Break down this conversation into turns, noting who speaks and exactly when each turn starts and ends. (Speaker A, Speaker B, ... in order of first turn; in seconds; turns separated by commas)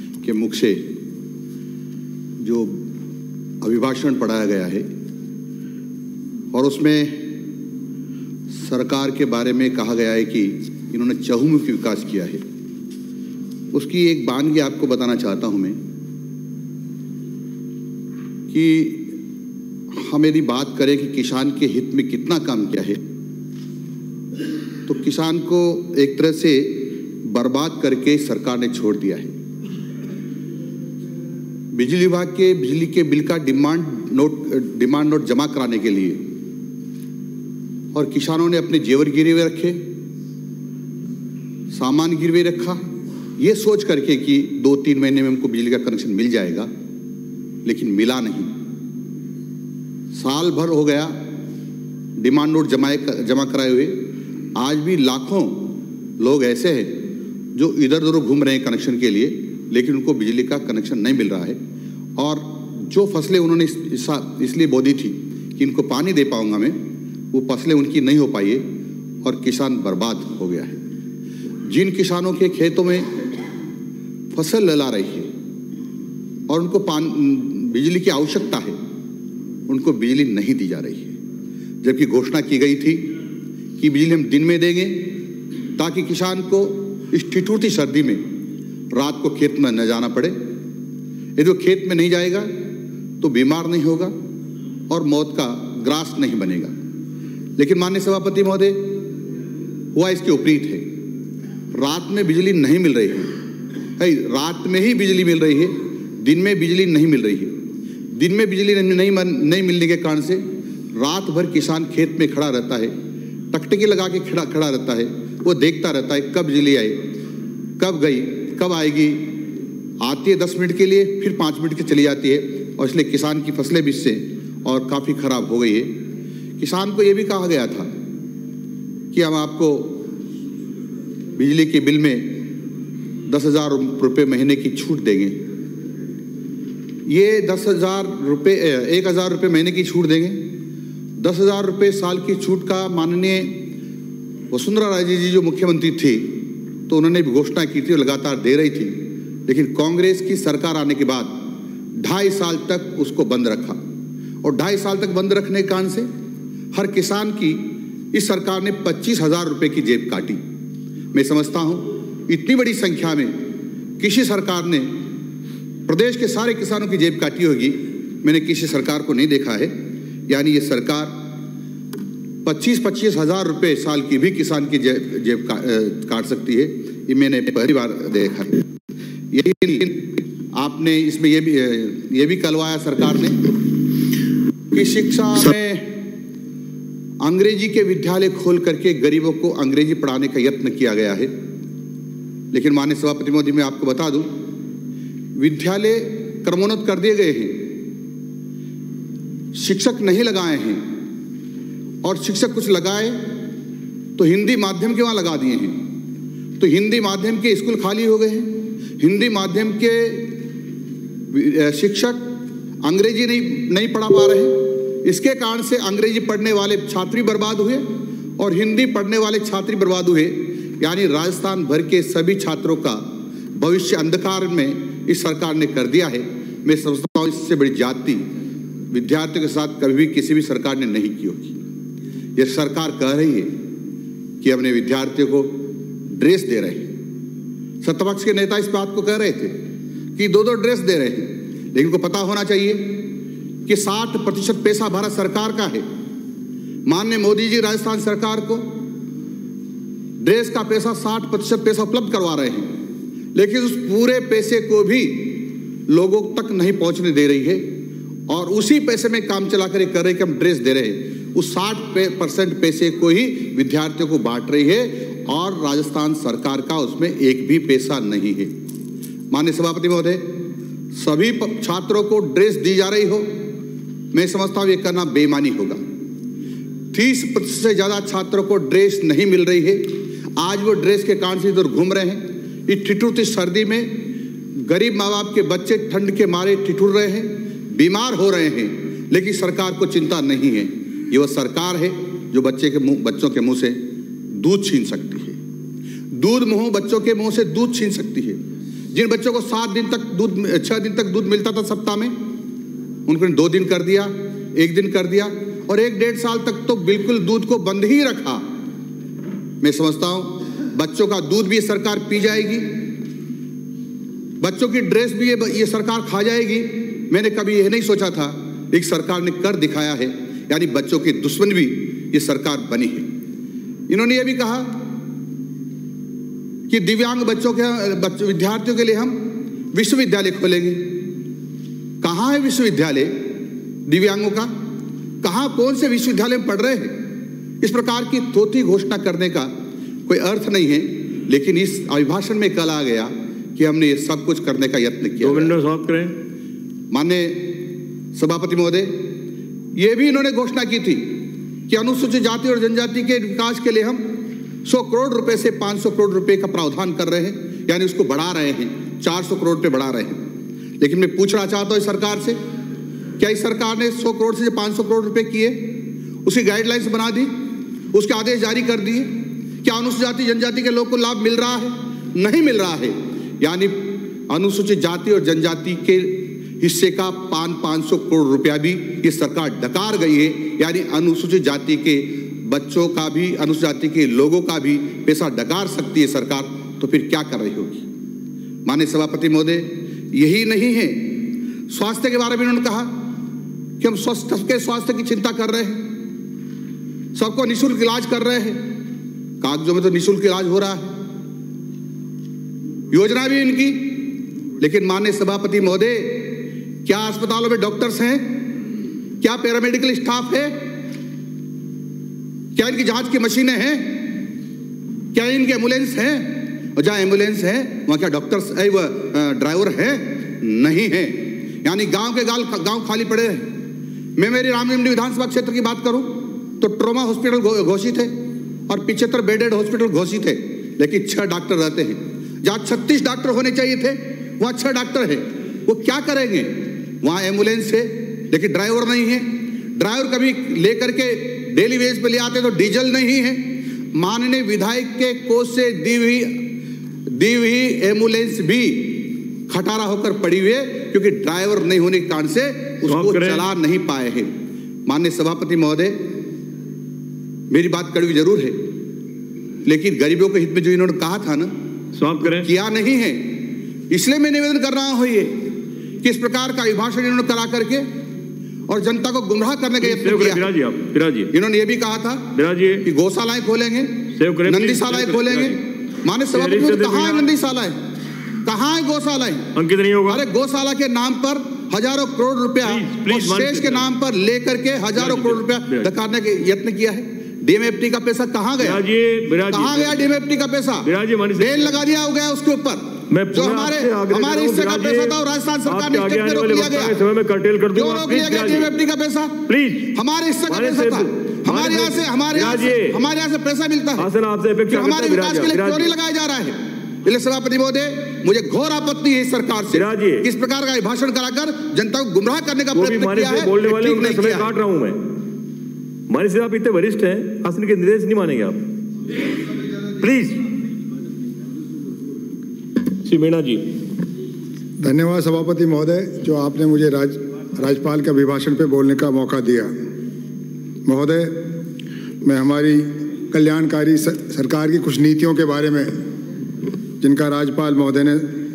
Speaker A: 0.2-0.9, Speaker A: 2.4-2.9, Speaker A: 3.6-4.9, Speaker A: 6.5-7.3, Speaker A: 8.5-12.4, Speaker A: 13.7-15.8, Speaker A: 18.5-19.2, Speaker A: 19.9-23.0, Speaker A: 24.9-29.3, Speaker A: 31.7-36.2, Speaker A: 37.9-39.8, Speaker A: 41.7-42.8, Speaker A: 43.4-46.7, Speaker A: 47.6-48.5, Speaker A: 50.1-51.2, Speaker A: 52.2-54.0, Speaker A: 54.5-57.0, Speaker A: 57.5-61.6, Speaker A: 62.2-68.7, Speaker A: 69.2-70.8, Speaker A: 71.7-73.1, Speaker A: 74.3-75.3, Speaker A: 76.5-78.8, Speaker A: 79.7-81.2, Speaker A: 81.8-83.1, Speaker A: 83.8-85.1, Speaker A: 85.8-88.3, Speaker A: 88.9-90.4, Speaker A: 91.4-92.5, Speaker A: 93.2-94.1, Speaker A: 94.9-96.7, Speaker A: 97.6-99.0, Speaker A: 100.0-100.8, Speaker A: 101.7-103.3, Speaker A: 104.0-107.6, Speaker A: 108.1-110.4, Speaker A: 111.0-112.9, Speaker A: 113.5-117.1, Speaker A: 117.8-119.3, Speaker A: 120.0-126.0, Speaker A: 126.6-127.9, Speaker A: 129.1-130.1, Speaker A: 131.3-132.4, Speaker A: 133.3-135.4, Speaker A: 137.1-140.5, Speaker A: 141.2-143.6, Speaker A: 144.5-151.4, Speaker A: 152.0-153.8, Speaker A: 154.4-156.1, Speaker A: 156.7-160.4, Speaker A: 161.1-163.4, Speaker A: 164.0-164.9, Speaker A: 165.9-169.7, Speaker A: 170.3-171.2, Speaker A: 172.4-178.6, Speaker A: 179.3-183.6, Speaker A: 184.7-186.0, Speaker A: 187.2-191.3, Speaker A: 192.5-194.3, Speaker A: 195.4-197.7, Speaker A: 199.5-200.8, Speaker A: 202.0-203.3, Speaker A: 204.2-205.8, Speaker A: 206.6-210.4, Speaker A: 211.3-212.3, Speaker A: 212.8-228.3, Speaker A: 228.9-231.6, Speaker A: 232.4-233.5, Speaker A: 234.4-235.6, Speaker A: 236.1-236.9, Speaker A: 237.8-239.6, Speaker A: 240.2-243.1, Speaker A: 243.7-245.9, Speaker A: 246.9-248.8, Speaker A: 250.2-252.7, Speaker A: 253.3-257.7, Speaker A: 258.3-268.5, Speaker A: 269.3-270.3, Speaker A: 270.9-273.3, Speaker A: 274.1-275.8, Speaker A: 276.9-295.4, Speaker A: 296.1-298.4, Speaker A: 298.9-302.1, Speaker A: 303.1-308.4, Speaker A: 309.6-312.8, Speaker A: 314.4-323.1, Speaker A: 323.9-324.8, Speaker A: 326.7-331.0, Speaker A: 332.0-333.1, Speaker A: 333.9-334.5, Speaker A: 335.2-337.0, Speaker A: 337.6-339.5, Speaker A: 340.1-345.6, Speaker B: 345.2-346.2, Speaker A: 346.9-347.6, Speaker A: 348.1-349.1, Speaker A: 349.7-360.2, Speaker A: 360.8-362.4, Speaker A: 363.2-367.3, Speaker A: 367.9-387.9, Speaker A: 388.7-393.0, Speaker A: 393.8-395.9, Speaker A: 397.1-398.7, Speaker A: 399.4-400.9, Speaker A: 402.9-408.5, Speaker A: 409.2-410.6, Speaker A: 412.5-414.2, Speaker A: 415.1-423.5, Speaker A: 424.2-428.1, Speaker A: 428.7-446.6, Speaker A: 447.1-454.3, Speaker B: 452.9-453.5, Speaker A: 454.9-456.0, Speaker A: 457.5-458.6, Speaker A: 459.6-461.5, Speaker B: 461.9-462.5, Speaker A: 462.2-465.4, Speaker A: 466.0-467.9, Speaker A: 468.7-470.5, Speaker B: 469.8-471.3, Speaker A: 471.3-477.8, Speaker B: 472.3-472.9, Speaker B: 474.2-475.6, Speaker B: 476.3-477.3, Speaker A: 478.4-479.5, Speaker B: 479.6-480.2, Speaker A: 480.1-488.8, Speaker B: 482.6-483.9, Speaker B: 484.9-485.9, Speaker B: 488.6-490.0, Speaker A: 489.5-497.0, Speaker B: 490.8-491.8, Speaker B: 493.1-498.7, Speaker A: 497.7-504.1, Speaker B: 499.5-499.9, Speaker B: 500.5-503.0, Speaker B: 504.0-505.9, Speaker A: 504.7-514.5, Speaker B: 509.7-510.3, Speaker B: 512.7-515.0, Speaker B: 516.1-518.6, Speaker B: 520.0-520.5, Speaker B: 523.0-523.8, Speaker C: 524.8-529.7, Speaker C: 530.9-531.5, Speaker C: 532.2-535.9, Speaker C: 537.0-538.3